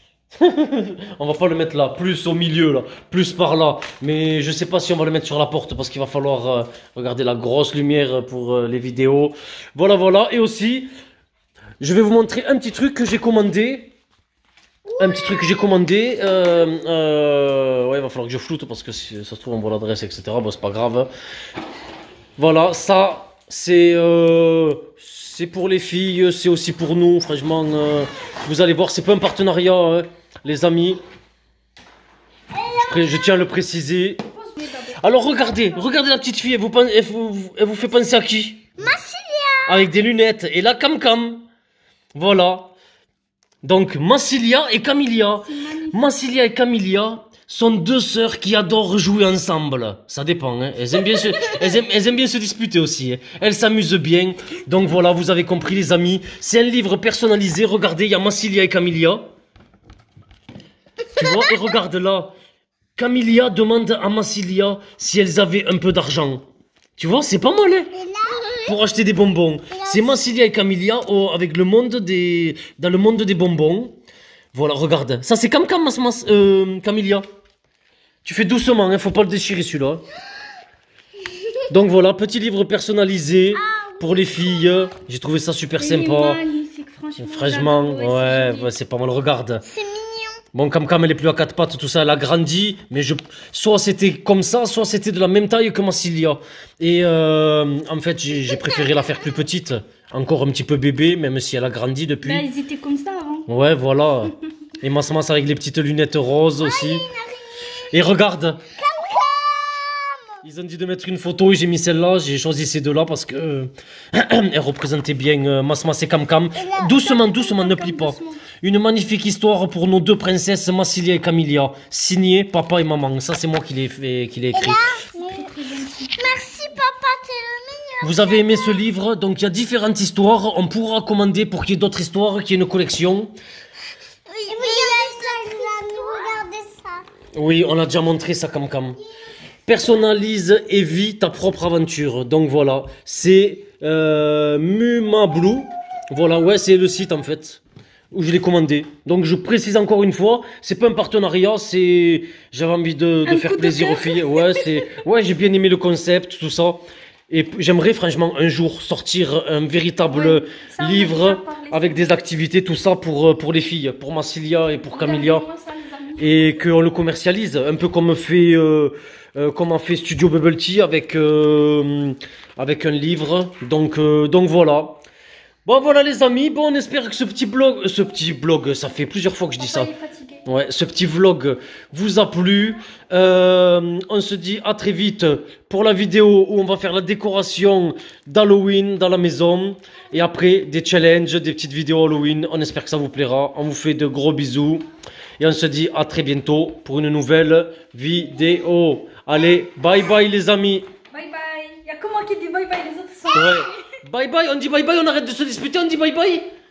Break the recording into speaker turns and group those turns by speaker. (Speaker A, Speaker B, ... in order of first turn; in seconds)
Speaker A: 0.3-10.9, 11.8-13.9, 15.0-21.1, 22.4-31.0, 32.8-34.2, 35.0-38.8, 39.6-41.4, 42.1-42.7, 43.6-59.3, 61.1-62.3, 63.0-66.4, 67.0-67.9, 68.6-74.0, 74.5-77.2, 78.2-80.0, 81.7-86.4, 87.2-89.6, 90.5-102.5, 103.5-107.1, 107.9-108.7, 110.4-124.8, 128.0-133.3, 137.3-139.0, 139.7-147.6, 148.1-165.5, 166.2-175.0, 175.7-179.9, 180.4-194.8, 195.4-200.9, 203.3-206.5
Speaker B: 14.8-15.5, 32.5-33.5, 38.8-39.9, 67.9-68.8, 69.7-70.3, 83.5-84.9, 89.6-90.4, 98.4-99.2, 106.6-108.0, 108.7-110.4, 116.5-117.1, 124.5-125.5, 126.1-128.8, 134.3-137.0
Speaker C: 34.3-35.9, 45.4-46.0, 85.8-88.7, 102.2-103.5, 117.0-118.4, 125.1-126.3, 153.2-154.9, 160.1-162.2, 164.8-166.7, 179.6-180.4, 201.1-203.8